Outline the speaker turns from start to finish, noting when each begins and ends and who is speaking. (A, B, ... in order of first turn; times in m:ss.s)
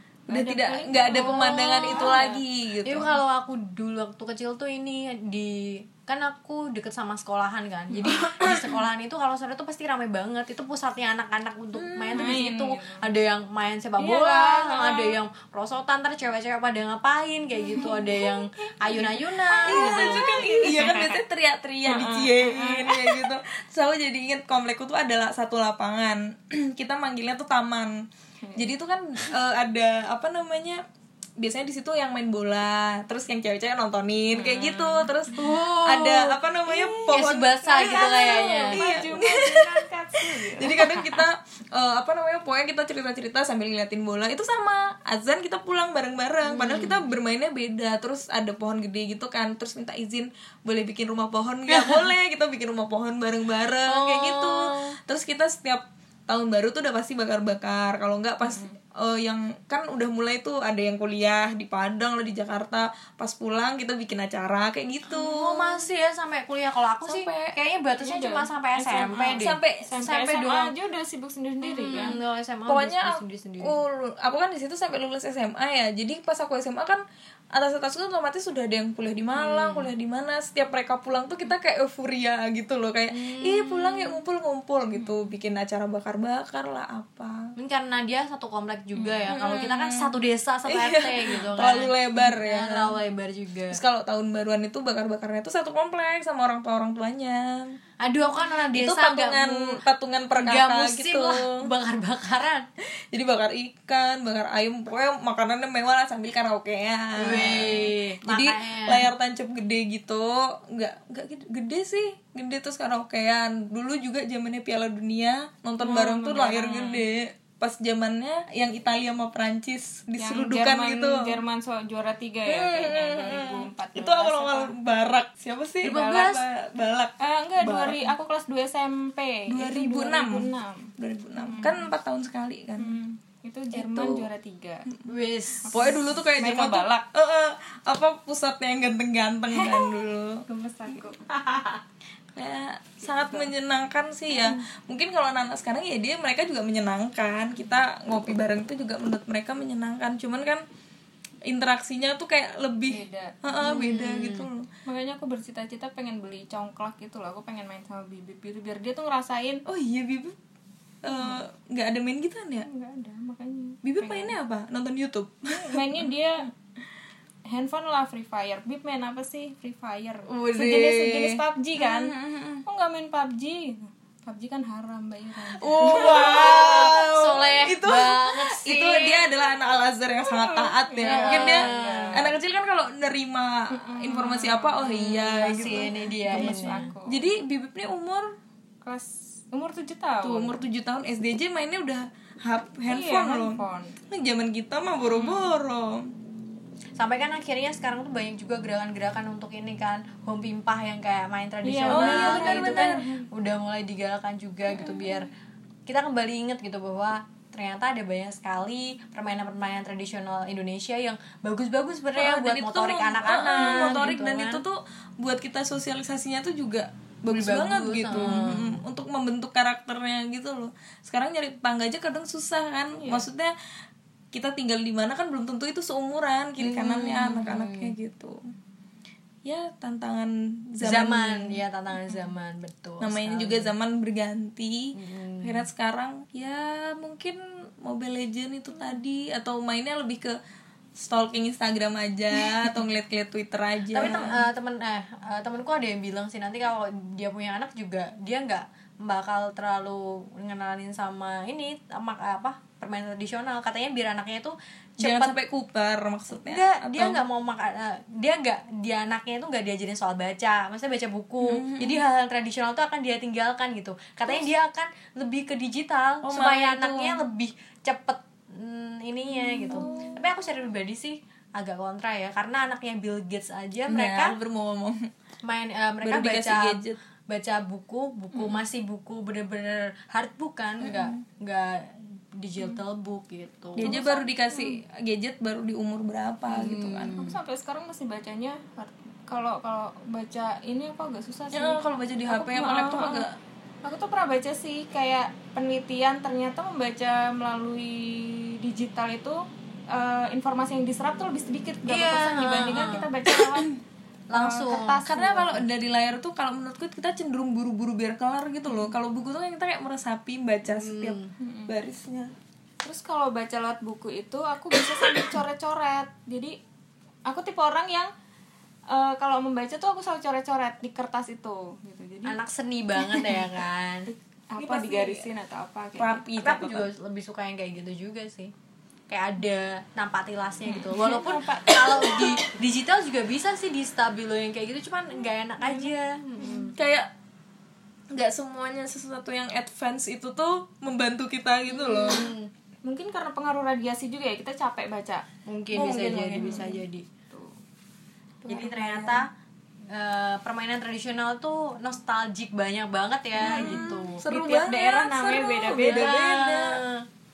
0:00.3-0:02.4 A
0:00.3-0:03.2 B
0:01.1-0:02.3 C
0:02.8-0:20.4 C
0:08.0-0:08.8 B
0:11.8-0:12.4 B
0:12.1-0:13.1 A
0:14.0-0:15.1 A
0:17.6-0:18.3 A
0:18.8-0:21.2 A
0:19.6-0:28.0 B
0:21.8-0:23.3 A
0:28.4-0:28.7 A
0:28.6-0:30.8 B
0:31.4-1:05.8 B
0:34.3-0:35.1 A
0:35.3-0:38.8 C
0:37.7-0:41.2 A
0:46.4-0:47.1 C
0:51.7-0:52.1 C
0:53.9-0:55.0 C
0:58.4-0:58.7 A
1:05.1-1:10.7 C
1:07.0-1:07.6 B
1:08.0-1:12.2 A
1:09.4-1:09.9 B
1:11.6-1:13.8 C
1:12.7-1:27.5 B
1:19.4-1:19.9 C
1:23.1-1:24.2 C
1:25.0-1:25.3 A
1:27.6-1:33.8 C
1:29.0-1:29.2 A
1:29.3-1:30.1 B
1:30.7-1:33.0 B
1:33.7-1:37.8 B
1:38.0-1:39.8 C
1:38.7-1:41.7 B
1:40.3-1:42.6 C
1:43.1-2:01.4 B
1:47.2-1:49.1 C
1:55.8-1:57.0 A
2:00.2-2:04.7 A
2:02.5-2:08.1 B
2:05.8-2:06.4 C
2:07.2-2:11.9 A
2:09.5-2:12.9 B
2:12.8-2:14.9 A
2:13.7-2:14.3 B
2:15.1-2:15.9 C
2:15.6-2:17.0 A
2:15.7-2:21.0 B
2:19.5-2:21.8 A
2:22.3-2:30.6 B
2:23.0-2:23.5 A
2:24.3-2:24.6 A
2:31.5-2:34.7 B
2:32.9-2:33.4 A
2:33.6-2:34.5 C
2:34.8-2:39.6 A
2:39.6-2:40.4 B
2:41.0-2:42.7 B
2:41.0-2:41.4 A
2:42.6-2:44.3 A
2:43.8-2:46.1 B
2:45.5-2:46.5 A
2:47.5-2:52.1 A
2:50.4-2:52.6 B
2:52.6-2:56.9 A
2:55.6-3:08.4 B
2:55.8-2:59.3 C
3:00.2-3:02.3 A
3:01.0-3:02.3 C
3:03.7-3:07.3 A
3:04.8-3:06.9 C
3:08.8-3:10.6 A
3:10.2-3:16.1 B
3:12.9-3:14.0 A
3:15.0-3:15.5 A
3:17.0-3:25.3 C
3:21.6-3:23.3 A
3:21.9-3:23.0 B
3:24.8-3:25.2 B
3:25.8-3:34.6 C
3:32.1-3:43.5 B
3:33.5-3:34.1 A
3:37.3-3:38.8 C
3:38.1-3:38.4 A
3:43.0-3:43.3 A
3:44.3-3:48.4 B
3:46.6-3:47.9 C
3:49.4-3:51.6 B
3:50.8-3:53.7 C
3:53.0-4:00.3 B
3:54.9-3:55.6 C
4:01.0-4:04.4 B
4:03.9-4:15.4 C
4:15.0-4:17.2 B
4:16.3-4:34.4 C
4:21.4-4:22.0 B
4:26.2-4:27.2 B
4:29.6-4:30.0 B
4:29.7-4:30.1 A
4:33.9-4:35.1 B
4:35.4-4:44.0 C
4:36.0-4:37.0 B
4:38.3-4:38.6 A
4:40.8-4:41.2 B
4:43.8-4:44.8 A
4:43.8-4:47.2 B
4:46.5-4:47.4 C
4:47.1-4:53.2 A
4:51.5-4:53.3 B
4:53.8-5:03.7 A
5:01.9-5:03.1 C
5:02.7-5:03.8 B
5:04.3-5:05.6 C
5:04.3-5:05.4 A
5:05.0-5:12.3 B
5:10.7-5:11.3 C
5:11.4-5:11.7 A
5:12.8-5:16.6 A
5:17.3-5:18.1 A
5:18.9-5:22.4 A
5:22.2-5:24.1 C
5:23.0-5:23.4 A
5:24.5-5:26.2 A
5:24.6-5:25.2 B
5:26.0-5:26.9 B
5:26.3-5:28.5 C
5:29.1-5:36.8 C
5:30.6-5:32.4 A
5:36.4-5:36.7 A
5:36.7-5:37.1 B
5:38.1-5:42.3 B
5:41.7-5:42.5 C
5:42.8-5:45.2 A
5:45.5-5:47.0 C
5:45.7-5:46.8 B
5:46.4-5:46.6 A
5:47.3-5:47.6 A
5:48.4-5:49.2 B
5:48.5-5:49.3 C
5:49.9-5:54.2 C
5:53.4-5:56.8 B
5:53.4-5:56.2 A
5:55.8-5:57.0 C